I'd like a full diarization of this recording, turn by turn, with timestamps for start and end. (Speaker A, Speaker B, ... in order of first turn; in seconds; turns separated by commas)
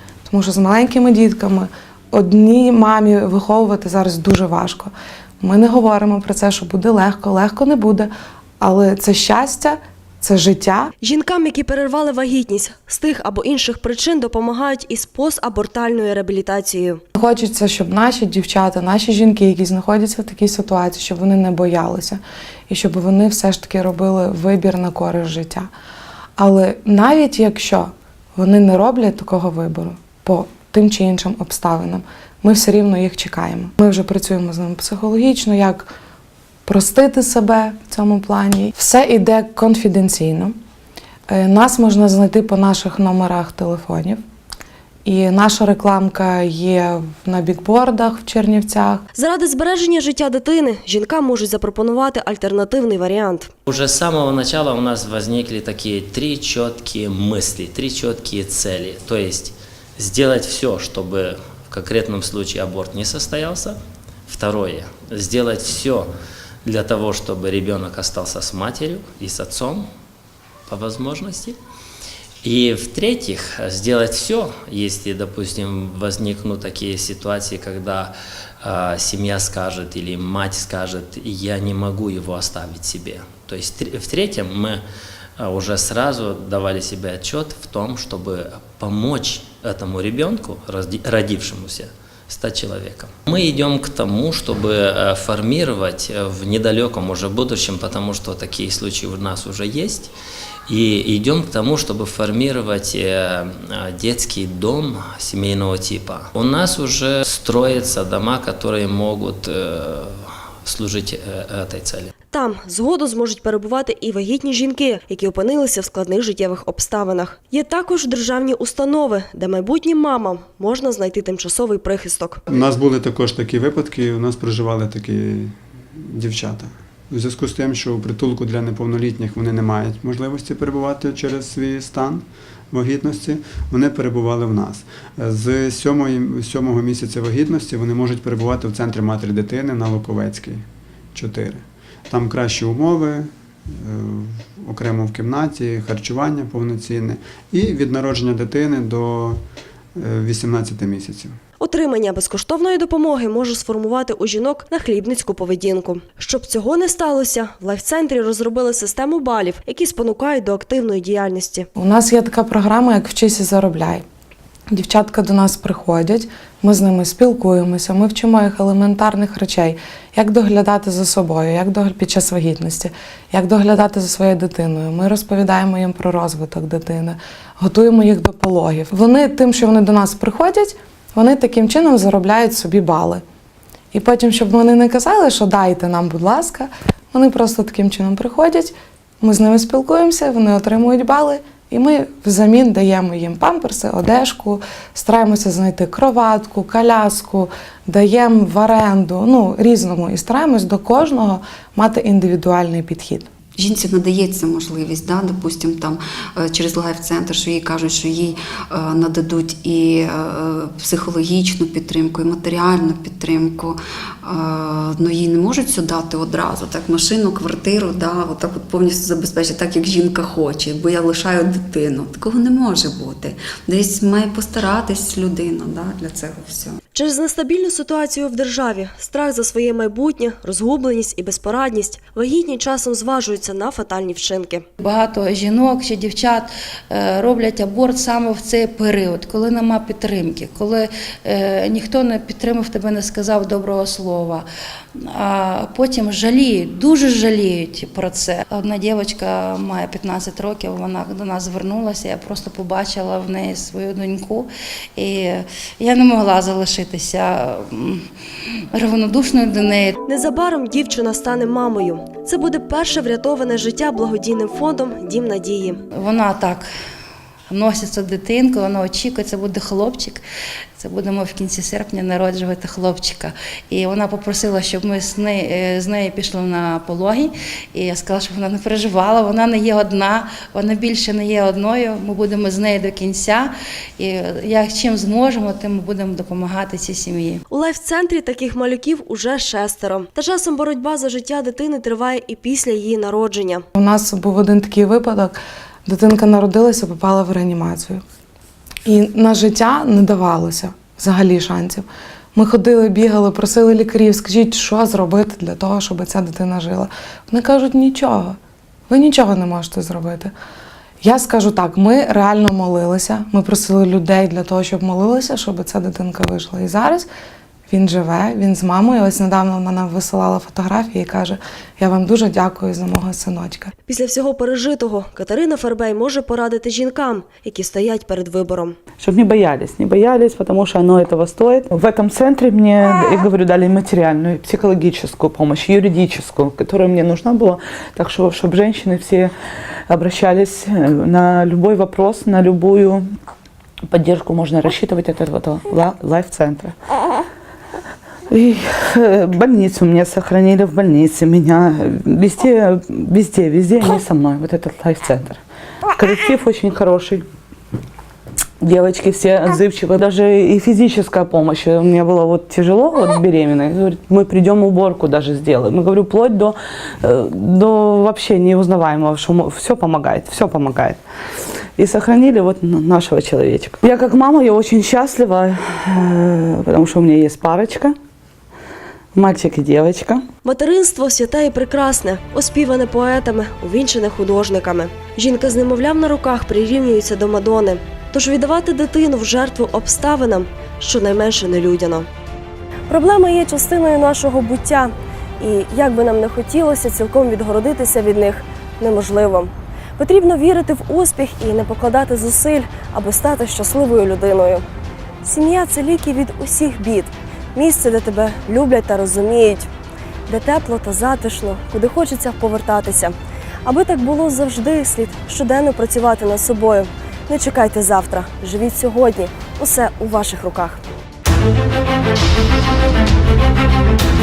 Speaker A: 0.3-10.9, Speaker B: 11.0-17.0, Speaker A: 17.1-25.7, Speaker A: 26.4-35.9, Speaker A: 36.6-40.5, Speaker A: 41.3-44.2, Speaker A: 45.0-49.0, Speaker B: 49.1-53.5, Speaker C: 53.6-66.1, Speaker C: 66.6-69.9, Speaker C: 70.7-71.6, Speaker C: 72.4-84.8, Speaker C: 85.4-100.1, Speaker C: 100.7-112.1, Speaker B: 112.3-122.4, Speaker D: 122.5-140.6, Speaker D: 141.1-149.4, Speaker D: 149.9-151.4, Speaker B: 151.6-161.7, Speaker A: 161.8-164.1, Speaker A: 164.7-183.2, Speaker A: 183.9-203.3, Speaker E: 203.6-226.8, Speaker B: 226.9-234.6, Speaker F: 234.8-258.1, Speaker F: 258.7-260.0, Speaker B: 260.1-265.8, Speaker F: 265.9-266.7, Speaker F: 267.5-270.2, Speaker F: 270.8-287.4, Speaker B: 287.5-293.6, Speaker A: 293.8-298.0, Speaker A: 298.9-308.4, Speaker A: 308.9-310.3, Speaker A: 311.0-317.1, Speaker A: 317.7-323.7, Speaker B: 323.9-328.8, Speaker G: 329.0-339.3, Speaker G: 339.9-343.0, Speaker G: 343.9-346.7, Speaker G: 348.3-355.4, Speaker G: 356.0-357.2, Speaker G: 358.6-371.0, Speaker G: 371.8-377.9, Speaker G: 379.1-380.2, Speaker B: 380.4-392.1, Speaker B: 392.9-404.6, Speaker B: 405.2-409.7, Speaker B: 410.3-413.1, Speaker B: 413.6-420.8